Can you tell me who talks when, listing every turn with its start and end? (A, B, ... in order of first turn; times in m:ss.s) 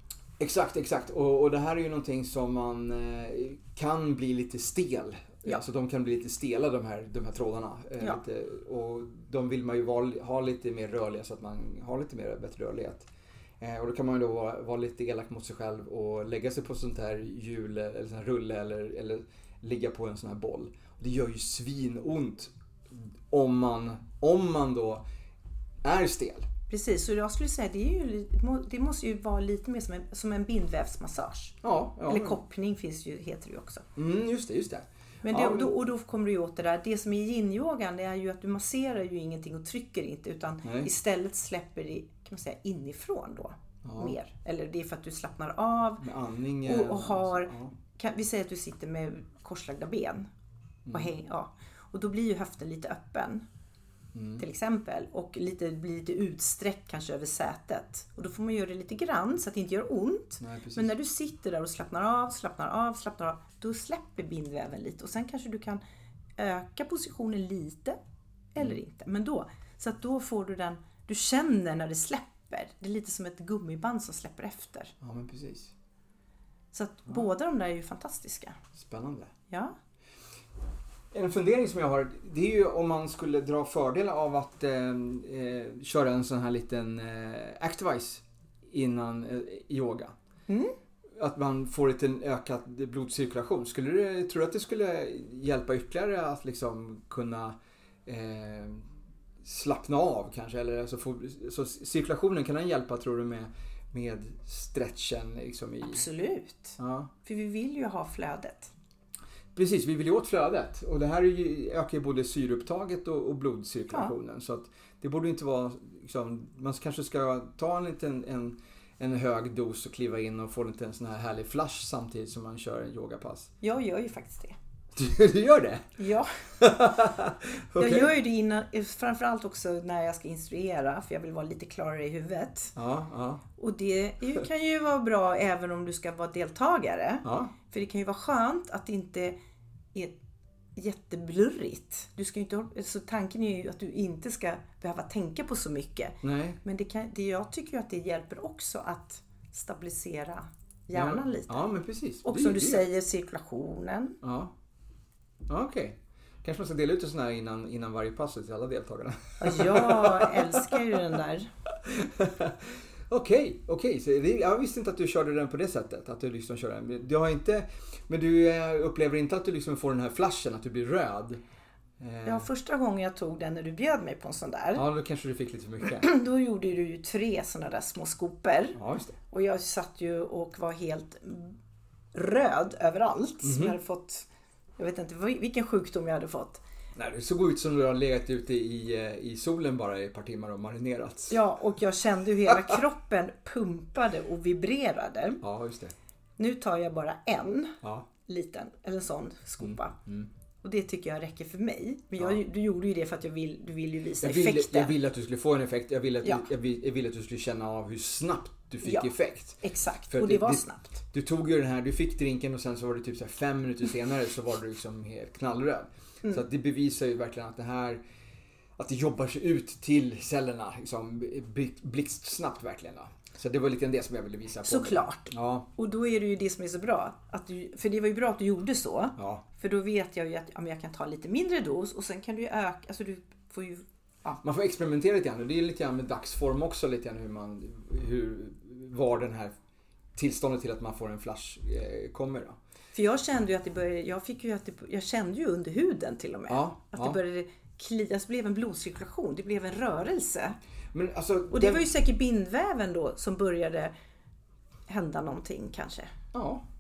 0:00.4-0:13.1 A
0:13.6-0:25.0 A
0:25.8-0:26.5 A
0:26.7-0:33.9 B
0:31.6-0:32.4 A
0:34.0-0:35.8 A
0:35.2-0:46.1 B
0:40.6-0:40.9 A
0:43.8-0:44.2 A
0:46.0-0:47.7 A
0:46.6-0:50.3 B
0:50.9-0:53.4 B
0:54.1-0:54.4 A
0:54.4-1:05.8 B
1:00.4-1:00.9 A
1:06.4-1:08.0 B
1:08.5-1:14.9 B
1:15.0-1:15.7 A
1:16.7-1:18.6 B
1:18.7-1:19.3 A
1:19.5-1:19.8 B
1:21.1-1:30.1 A
1:30.5-1:30.8 B
1:31.2-1:37.6 A
1:38.1-1:38.9 A
1:39.4-1:46.0 A
1:45.9-1:48.7 B
1:46.8-1:47.1 A
1:49.6-2:03.5 A
2:03.6-2:04.6 B
2:05.0-2:05.9 A
2:06.0-2:06.5 B
2:06.6-2:08.1 A
2:07.8-2:12.8 B
2:12.8-2:13.4 A
2:13.6-2:19.4 B
2:17.2-2:17.5 A
2:20.8-2:31.6 B
2:26.2-2:26.6 A
2:30.9-2:32.8 A
2:32.2-2:34.2 B
2:34.2-2:34.5 A
2:35.5-2:41.0 A
2:39.4-2:41.5 B
2:41.8-2:51.4 A
2:52.0-2:52.5 A
2:52.2-2:54.8 B
2:54.8-2:56.1 A
2:56.0-2:58.8 B
2:58.8-2:59.2 A
2:59.3-3:01.6 B
3:02.1-3:04.3 B
3:03.4-3:03.8 A
3:04.8-3:06.6 B
3:07.0-3:11.4 A
3:11.3-3:15.4 B
3:12.5-3:12.8 A
3:15.4-3:16.0 A
3:16.4-3:20.0 B
3:17.8-3:18.1 A
3:19.6-3:20.3 A
3:20.6-3:24.9 B
3:24.2-3:38.0 A
3:28.8-3:29.1 B
3:29.6-3:31.0 B
3:38.8-3:45.7 A
3:44.6-3:54.4 B
3:49.2-3:49.4 A
3:54.4-3:59.5 A
4:00.2-4:02.6 A
4:02.9-4:10.6 B
4:06.5-4:07.2 A
4:10.9-4:11.9 A
4:11.5-4:13.9 B
4:14.9-4:16.1 B
4:16.3-4:16.6 A